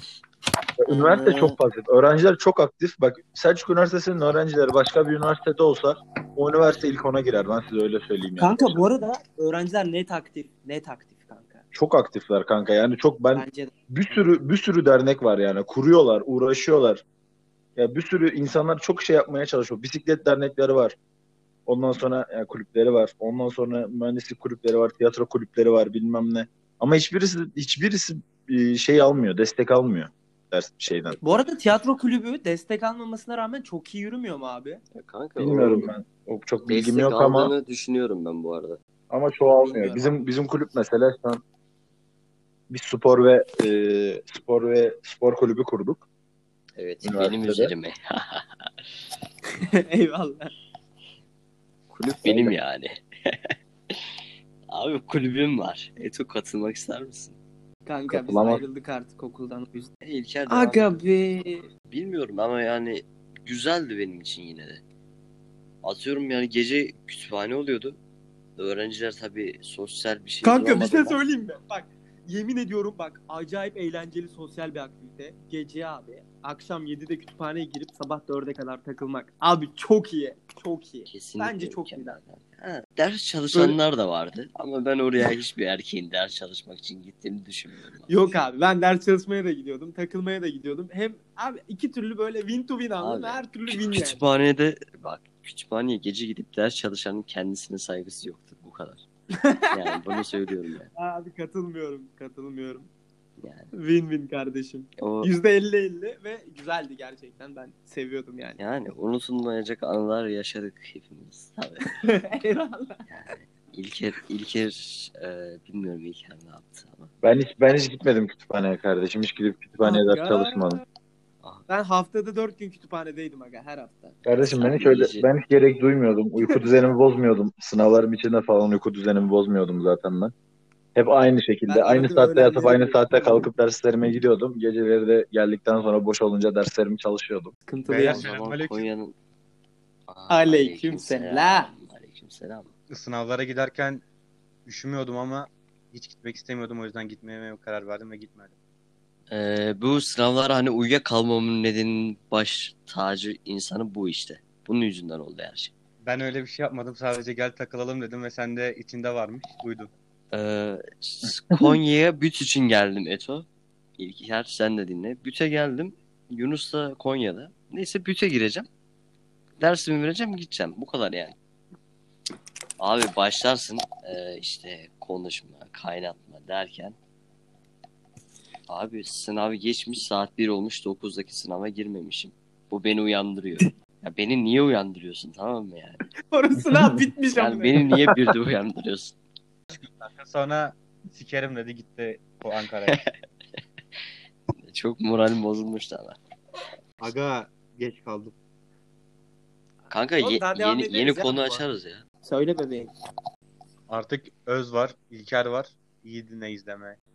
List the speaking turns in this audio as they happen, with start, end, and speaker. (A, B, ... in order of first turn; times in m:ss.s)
0:00.8-0:08.8 A
0:00.9-0:01.6 B
0:08.4-0:11.6 C
0:11.7-0:17.0 A
0:13.3-0:13.7 C
0:17.8-0:21.0 A
0:21.6-0:31.2 A
0:31.2-0:34.8 C
0:34.9-0:35.9 B
0:35.4-0:37.5 A
0:36.6-0:38.8 B
0:39.1-0:41.4 A
0:39.6-0:40.1 C
0:42.7-0:46.0 A
0:46.8-0:48.7 B
0:47.0-0:47.7 A
0:49.7-0:50.5 C
0:51.9-0:54.0 B
0:52.2-0:52.5 A
0:54.7-0:57.4 B
0:57.8-0:59.9 C
0:58.1-0:58.6 A
1:00.0-1:01.0 B
1:00.5-1:01.6 C
1:01.9-1:04.8 B
1:05.8-1:08.0 B
1:08.6-1:11.2 B
1:10.4-1:22.2 C
1:21.1-1:28.5 B
1:23.5-1:23.8 C
1:28.1-1:34.2 C
1:33.0-1:39.0 B
1:39.4-1:40.2 C
1:39.7-1:40.9 B
1:41.0-1:42.9 C
1:43.4-1:43.7 B
1:43.7-1:48.6 C
1:45.0-1:45.3 B
1:48.6-1:52.0 B
1:52.0-1:53.0 C
1:53.1-1:57.1 B
1:57.2-2:00.8 A
1:59.8-2:00.8 C
2:01.7-2:04.2 C
2:04.2-2:10.3 A
2:04.4-2:05.3 B
2:06.4-2:06.7 C
2:10.9-2:17.6 A
2:11.7-2:13.5 C
2:17.7-2:18.3 C
2:17.8-2:18.9 D
2:18.0-2:19.2 B
2:20.1-2:22.7 B
2:20.3-2:21.7 C
2:22.9-2:24.0 D
2:24.7-2:28.5 D
2:29.3-2:35.7 B
2:36.0-2:39.9 D
2:40.3-2:43.5 B
2:44.0-2:48.7 B
2:49.6-2:51.3 B
2:52.8-2:57.0 B
2:58.7-3:06.1 B
3:06.3-3:07.9 C
3:07.3-3:09.2 B
3:09.7-3:13.0 D
3:14.6-3:16.2 B
3:17.0-3:18.3 D
3:19.9-3:22.0 B
3:20.2-3:21.6 C
3:22.2-3:22.9 C
3:23.9-3:27.0 D